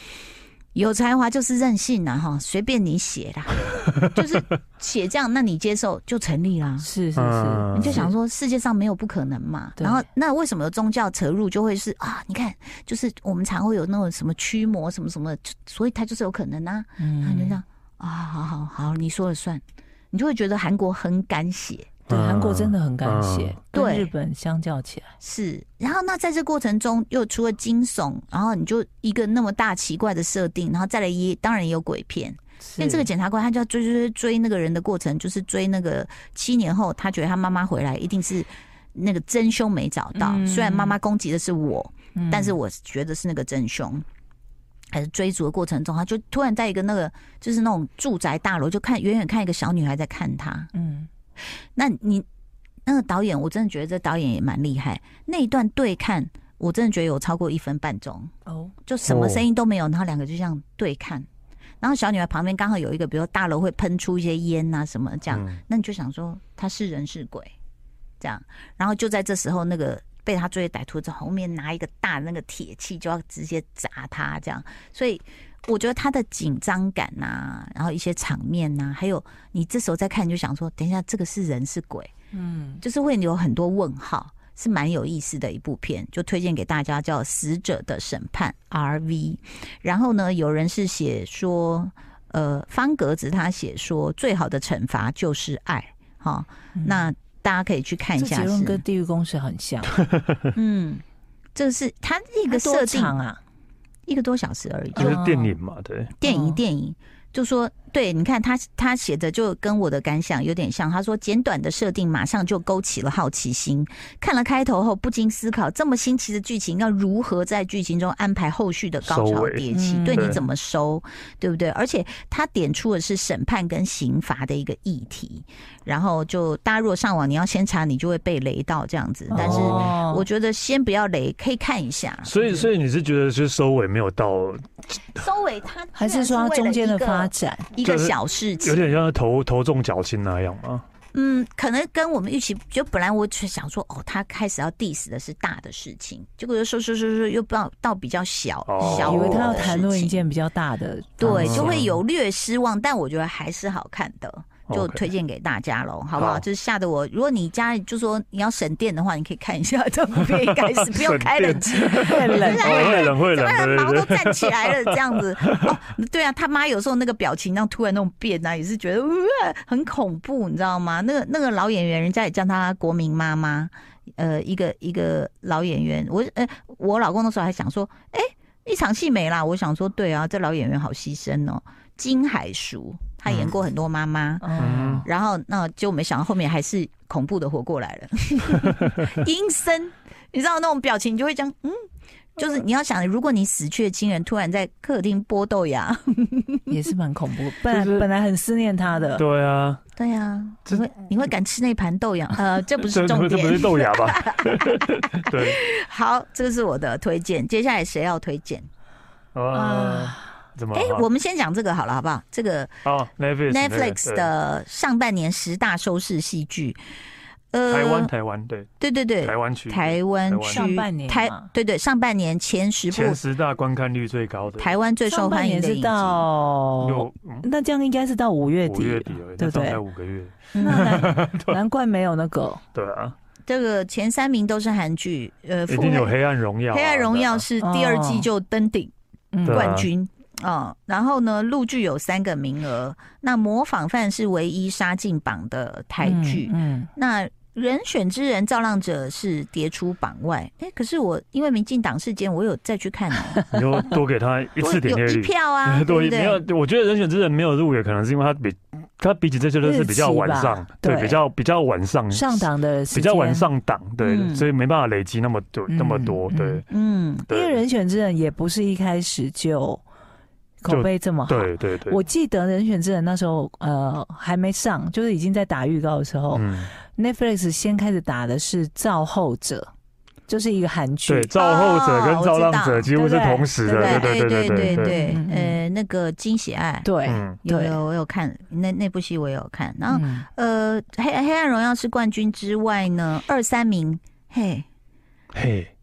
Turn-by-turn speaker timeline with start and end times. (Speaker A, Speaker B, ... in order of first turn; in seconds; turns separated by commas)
Speaker A: 0.7-6.9, Speaker B: 6.8-8.1, Speaker C: 7.2-8.1, Speaker A: 7.7-21.9, Speaker B: 9.8-10.1, Speaker B: 17.0-17.6, Speaker C: 22.1-23.6, Speaker B: 22.1-25.1, Speaker A: 23.7-24.1, Speaker A: 25.2-44.0, Speaker B: 32.6-33.1, Speaker B: 40.1-41.0, Speaker B: 42.1-42.5, Speaker A: 44.9-50.7, Speaker B: 50.7-51.1, Speaker A: 51.7-52.2, Speaker A: 52.9-58.3, Speaker B: 58.5-58.7, Speaker A: 58.9-61.3, Speaker C: 59.0-59.5, Speaker A: 61.8-67.5, Speaker C: 65.3-65.6, Speaker A: 68.2-82.1, Speaker B: 82.3-82.8, Speaker A: 82.8-98.8, Speaker B: 96.8-97.1, Speaker B: 98.2-99.9, Speaker A: 100.5-101.0, Speaker A: 101.5-103.2, Speaker B: 102.5-103.4, Speaker A: 104.0-105.2, Speaker B: 105.0-105.5, Speaker C: 105.0-106.2, Speaker A: 106.2-132.5, Speaker B: 106.2-106.6, Speaker C: 119.0-120.4, Speaker B: 119.7-120.4, Speaker B: 129.3-130.3, Speaker C: 129.3-129.8, Speaker C: 132.2-135.2, Speaker B: 132.4-132.7, Speaker A: 135.2-138.9, Speaker B: 135.9-137.7, Speaker C: 137.8-140.8, Speaker A: 141.1-150.3, Speaker C: 148.7-149.8, Speaker B: 148.8-151.8, Speaker A: 151.2-191.8, Speaker C: 151.3-151.9, Speaker C: 154.7-155.0, Speaker C: 156.1-156.4, Speaker C: 160.7-165.8, Speaker B: 161.8-163.2, Speaker C: 183.3-183.5, Speaker B: 184.4-185.1, Speaker C: 184.6-185.1, Speaker A: 192.3-196.7, Speaker B: 196.7-199.2, Speaker C: 197.7-198.1, Speaker C: 199.2-199.8, Speaker A: 200.0-208.7, Speaker C: 202.8-205.6, Speaker C: 209.3-211.1, Speaker B: 209.5-210.2, Speaker A: 210.7-212.7, Speaker C: 212.8-214.3, Speaker A: 213.5-216.8, Speaker A: 217.5-218.1, Speaker C: 217.7-218.7, Speaker A: 218.8-223.2, Speaker C: 219.2-220.7, Speaker B: 220.5-221.5, Speaker C: 222.9-224.8, Speaker A: 224.6-226.2, Speaker B: 225.1-229.8, Speaker C: 226.8-227.5, Speaker C: 228.6-231.6, Speaker A: 230.5-231.0, Speaker B: 230.6-232.6, Speaker C: 232.7-233.1, Speaker A: 233.5-236.1, Speaker C: 235.7-237.4, Speaker A: 236.7-238.9, Speaker B: 237.6-238.3, Speaker B: 239.3-239.8, Speaker C: 239.4-239.9, Speaker A: 239.5-253.4, Speaker B: 246.0-246.9, Speaker C: 253.5-266.6, Speaker A: 254.6-256.4, Speaker B: 259.6-261.2, Speaker B: 262.1-263.5, Speaker A: 264.0-264.5, Speaker B: 265.7-266.6, Speaker A: 266.7-267.3, Speaker C: 267.3-267.6, Speaker B: 267.3-269.8, Speaker B: 270.6-279.7, Speaker C: 270.7-272.0, Speaker C: 276.3-276.7, Speaker B: 280.3-281.3, Speaker C: 281.1-285.0, Speaker A: 281.4-282.9, Speaker B: 282.9-285.6, Speaker A: 283.6-286.9, Speaker B: 286.8-287.8, Speaker C: 287.1-287.4, Speaker A: 287.4-294.6, Speaker B: 289.9-290.3, Speaker C: 295.3-295.7